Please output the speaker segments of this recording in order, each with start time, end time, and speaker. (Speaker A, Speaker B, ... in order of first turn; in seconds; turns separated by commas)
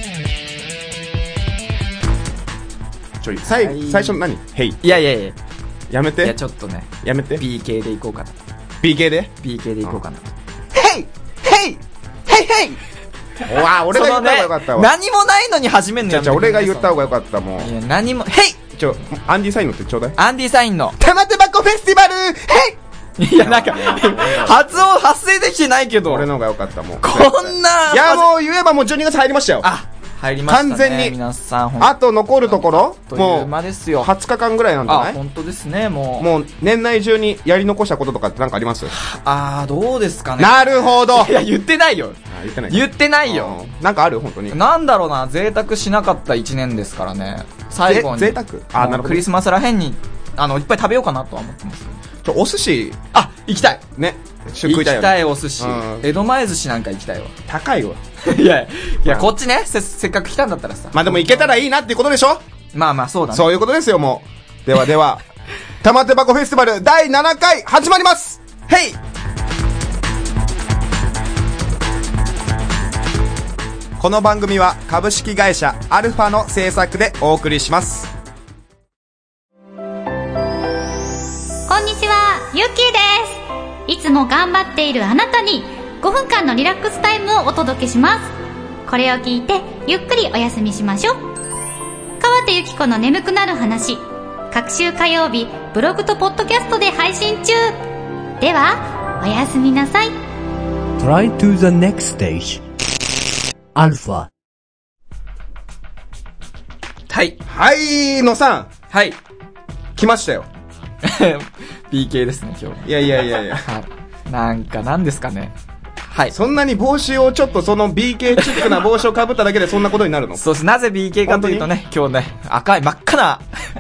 Speaker A: 3.2-4.9, Speaker B: 3.5-4.2, Speaker B: 4.8-5.4, Speaker A: 5.9-6.3, Speaker B: 6.2-8.4, Speaker A: 7.0-7.4, Speaker A: 8.8-9.3, Speaker B: 9.4-10.3, Speaker A: 11.4-11.8, Speaker B: 12.3-12.8, Speaker A: 12.3-12.8, Speaker A: 13.4-14.9, Speaker B: 13.9-16.9, Speaker A: 16.1-17.7, Speaker B: 17.6-18.6, Speaker A: 18.7-20.2, Speaker B: 20.2-20.9, Speaker A: 21.0-22.8, Speaker B: 23.2-26.3, Speaker A: 23.3-24.6, Speaker A: 26.1-29.7, Speaker B: 27.0-28.3, Speaker B: 29.6-34.1, Speaker A: 30.5-31.2, Speaker A: 31.8-35.2, Speaker B: 34.9-36.3, Speaker A: 36.2-38.9, Speaker B: 38.9-42.2, Speaker A: 40.4-41.3, Speaker A: 42.3-44.6, Speaker B: 42.7-43.6, Speaker B: 44.5-52.0, Speaker A: 47.9-49.3, Speaker A: 52.2-53.0, Speaker B: 53.1-53.8, Speaker A: 53.8-56.1, Speaker B: 54.6-57.4, Speaker A: 57.5-58.0, Speaker B: 58.2-61.5, Speaker A: 59.0-59.3, Speaker A: 60.9-62.4, Speaker B: 62.7-63.5, Speaker A: 63.3-65.2, Speaker A: 65.8-68.7, Speaker B: 68.7-69.0, Speaker A: 74.0-78.1, Speaker C: 81.7-88.3, Speaker C: 88.9-91.2, Speaker C: 92.2-97.8, Speaker C: 98.4-100.2, Speaker D: 101.0-102.6, Speaker D: 103.8-104.3, Speaker B: 107.1-107.4, Speaker A: 107.5-108.7, Speaker B: 108.9-109.2, Speaker A: 110.0-110.5, Speaker B: 111.0-115.5, Speaker A: 112.8-113.7, Speaker B: 116.1-116.3, Speaker A: 116.3-120.4, Speaker B: 118.4-118.7, Speaker B: 120.4-123.4, Speaker A: 121.3-121.7